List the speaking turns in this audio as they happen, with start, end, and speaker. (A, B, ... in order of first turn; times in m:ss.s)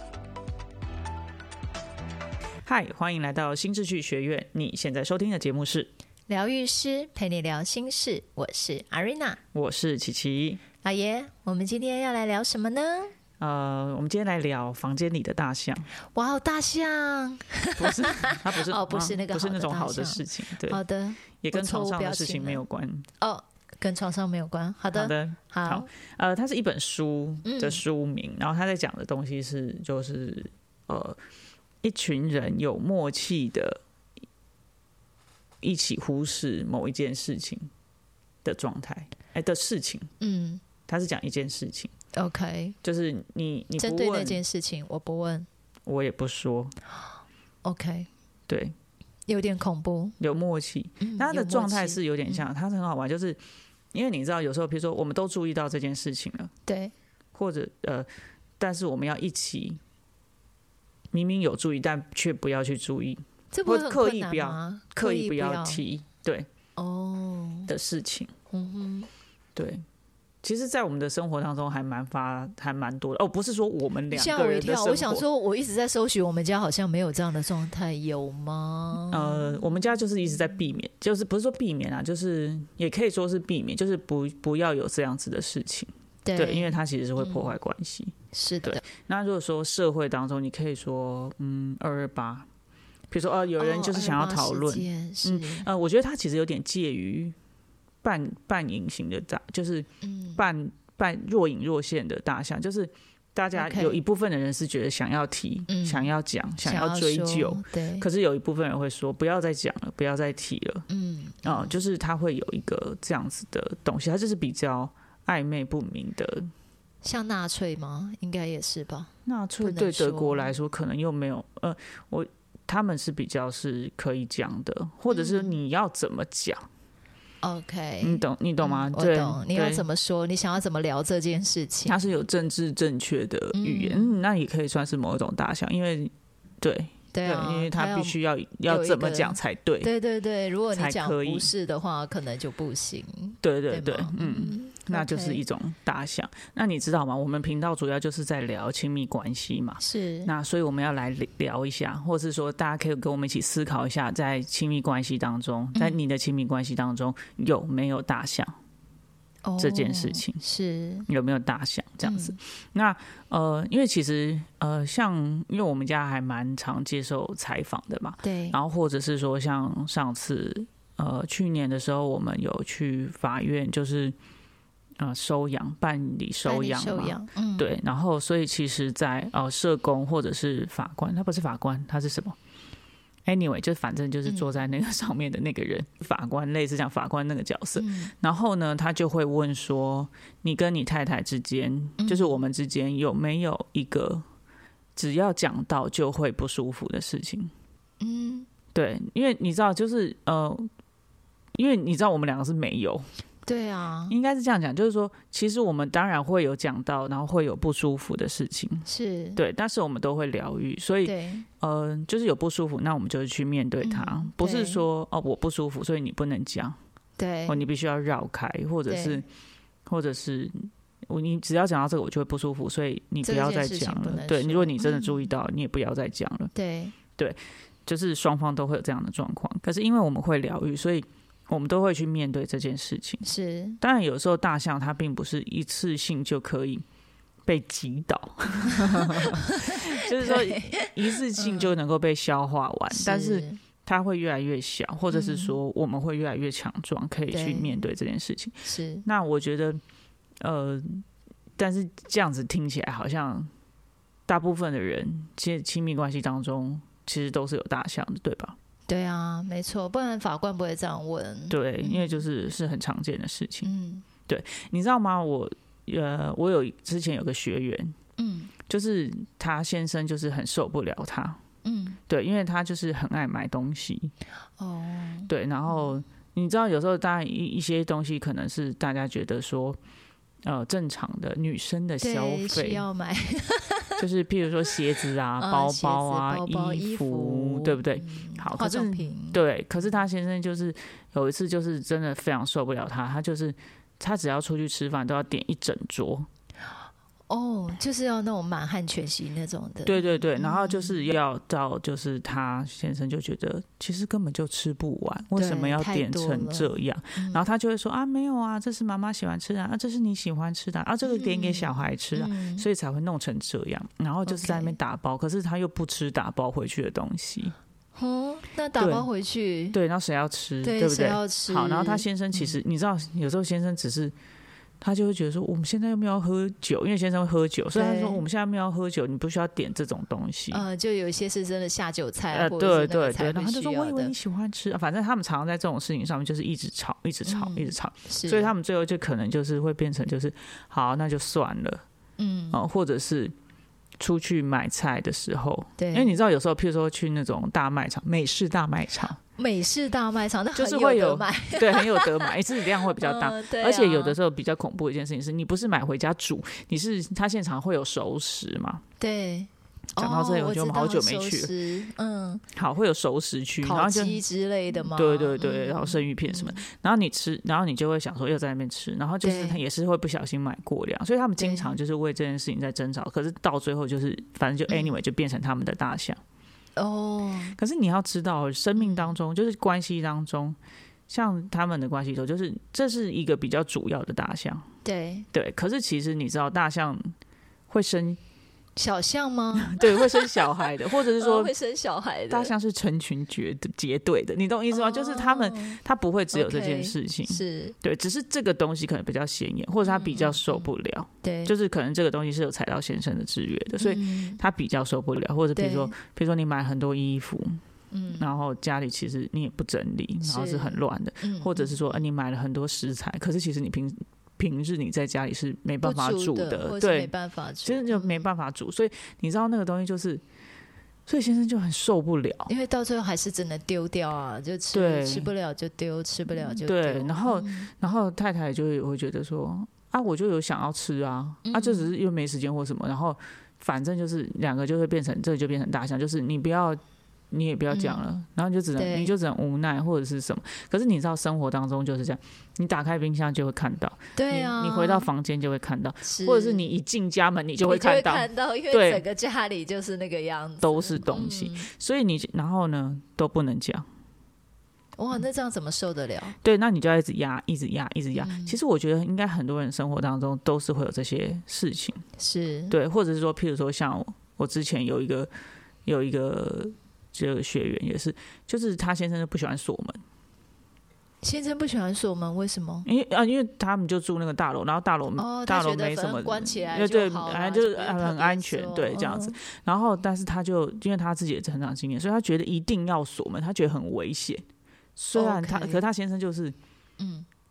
0:02.7-0:05.9 A
0:06.3-0:09.4 B
0:09.5-0:10.6 A
0:10.8-0:13.1 B
0:13.4-0:15.9 A
0:16.1-0:22.6 B
0:17.8-0:20.8 A
0:21.4-0:23.1 A
0:23.2-0:25.9 B
0:24.9-0:31.2 A
0:27.4-0:27.8 B
0:31.8-0:33.8 A
0:35.6-0:37.7 A
0:38.4-0:40.1 A
0:40.2-0:40.6 B
0:40.8-0:41.9 A
0:42.1-0:42.8 B
0:42.8-0:44.4 A
0:43.8-0:45.5 B
0:45.9-0:46.8 A
0:47.6-0:48.1 B
0:48.5-0:48.8 A
0:49.3-0:50.2 B
0:50.2-0:53.4 A
0:51.0-0:52.4 B
0:53.9-0:56.5 A
0:56.7-0:56.9 B
0:57.4-0:58.1 A
0:58.6-0:59.8 A
1:01.1-1:06.5 A
1:03.5-1:05.8 B
1:06.8-1:07.7 B
1:07.7-1:08.3 A
1:08.5-1:09.1 B
1:09.6-1:09.8 A
1:10.4-1:15.2 A
1:14.1-1:19.6 B
1:19.1-1:32.5 A
1:26.2-1:27.5 B
1:28.3-1:28.8 B
1:33.1-1:37.4 A
1:33.6-1:35.7 B
1:38.0-1:50.9 A
1:40.0-1:40.4 B
1:43.6-1:44.0 B
1:45.7-1:46.1 B
1:46.6-1:48.1 B
1:50.9-1:51.7 B
1:51.4-1:56.5 A
1:57.0-2:00.5 B
1:59.3-2:06.7 A
2:05.1-2:05.6 B
2:07.4-2:12.2 B
2:08.0-2:09.8 A
2:11.9-2:19.9 A
2:13.5-2:14.2 B
2:17.1-2:25.4 B
2:20.7-2:21.5 A
2:23.4-2:38.5 A
2:29.8-2:30.3 B
2:39.4-2:41.1 B
2:39.6-2:40.4 A
2:41.1-2:54.2 A
2:42.0-2:42.4 B
2:48.2-2:48.6 B
2:55.0-3:02.4 A
2:56.4-2:57.7 B
3:03.3-3:14.2 A
3:04.3-3:04.5 B
3:07.8-3:08.1 B
3:12.0-3:12.4 B
3:15.0-3:17.5 A
3:18.0-3:18.5 B
3:18.7-3:20.7 A
3:21.6-3:23.1 A
3:23.5-3:24.1 B
3:24.1-3:36.8 A
3:28.9-3:29.4 B
3:31.0-3:31.5 B
3:33.8-3:34.8 B
3:37.2-3:37.6 B
3:37.5-3:39.3 A
3:38.9-3:39.2 B
3:39.9-3:46.5 A
3:43.2-3:45.3 B
3:46.5-3:47.0 B
3:47.2-3:53.2 A
3:53.2-3:53.8 B
3:53.8-3:56.8 A
3:57.5-4:09.8 A
3:58.7-4:01.7 B
4:02.9-4:03.6 B
4:05.1-4:05.6 B
4:07.3-4:07.8 B
4:08.6-4:09.0 B
4:10.4-4:11.0 A
4:11.6-4:13.5 A
4:14.3-4:18.6 A
4:18.9-4:22.2 B
4:21.5-4:23.7 A
4:23.6-4:24.1 B
4:24.3-4:28.0 A
4:28.2-4:28.5 B
4:28.7-4:31.4 A
4:31.6-4:32.0 B
4:32.1-4:34.1 A
4:34.6-4:35.9 B
4:35.3-4:39.8 A
4:40.4-4:42.8 A
4:42.0-4:44.0 B
4:44.0-4:56.3 A
4:45.4-4:49.4 B
4:57.3-5:01.0 B
4:59.8-5:17.6 A
5:05.4-5:07.4 B
5:11.0-5:12.7 B
5:14.3-5:14.8 B
5:18.0-5:19.8 B
5:18.8-5:19.1 A
5:19.7-5:24.1 A
5:20.6-5:22.6 B
5:24.8-5:30.6 A
5:27.7-5:28.2 B
5:30.5-5:34.1 B
5:32.3-5:41.8 A
5:37.3-5:38.5 B
5:42.2-5:42.6 B
5:42.5-5:43.3 A
5:44.0-5:49.2 A
5:45.8-5:46.2 B
5:49.4-5:54.2 B
5:50.6-5:58.8 A
5:59.0-6:02.4 B
6:00.0-6:01.5 A
6:02.6-6:04.2 A
6:03.6-6:06.6 B
6:04.9-6:16.2 A
6:09.2-6:09.6 B
6:11.4-6:11.7 B
6:14.7-6:15.0 B
6:16.8-6:17.6 B
6:17.6-6:20.6 A
6:18.8-6:19.2 B
6:21.1-6:24.7 A
6:24.8-6:25.3 B
6:25.3-6:27.1 A
6:27.7-6:28.2 A
6:28.8-6:32.5 B
6:29.6-6:31.5 A
6:32.3-6:47.6 A
6:34.7-6:35.8 B
6:36.3-6:37.8 B
6:39.8-6:40.7 B
6:41.2-6:41.5 B
6:43.8-6:44.4 B
6:45.6-6:45.9 B
6:47.9-6:48.3 B
6:48.1-6:57.1 A
6:50.2-6:51.8 B
6:55.8-6:58.3 B
6:57.6-7:00.2 A
7:01.1-7:02.5 A
7:02.5-7:07.7 B
7:04.7-7:05.3 A
7:06.4-7:16.8 A
7:11.4-7:11.9 B
7:17.3-7:29.0 A
7:17.7-7:18.1 B
7:18.8-7:19.1 B
7:24.2-7:25.1 B
7:26.0-7:26.7 B
7:27.6-7:31.7 B
7:30.6-7:33.9 A
7:35.0-7:36.4 B
7:36.4-7:42.0 A
7:38.2-7:38.6 B
7:42.2-7:42.8 B
7:42.7-7:45.3 A
7:45.9-7:50.0 A
7:51.2-7:52.9 B
7:52.8-8:04.4 A
7:55.2-7:59.4 B
8:05.0-8:06.6 A
8:05.2-8:05.8 B
8:07.0-8:07.3 B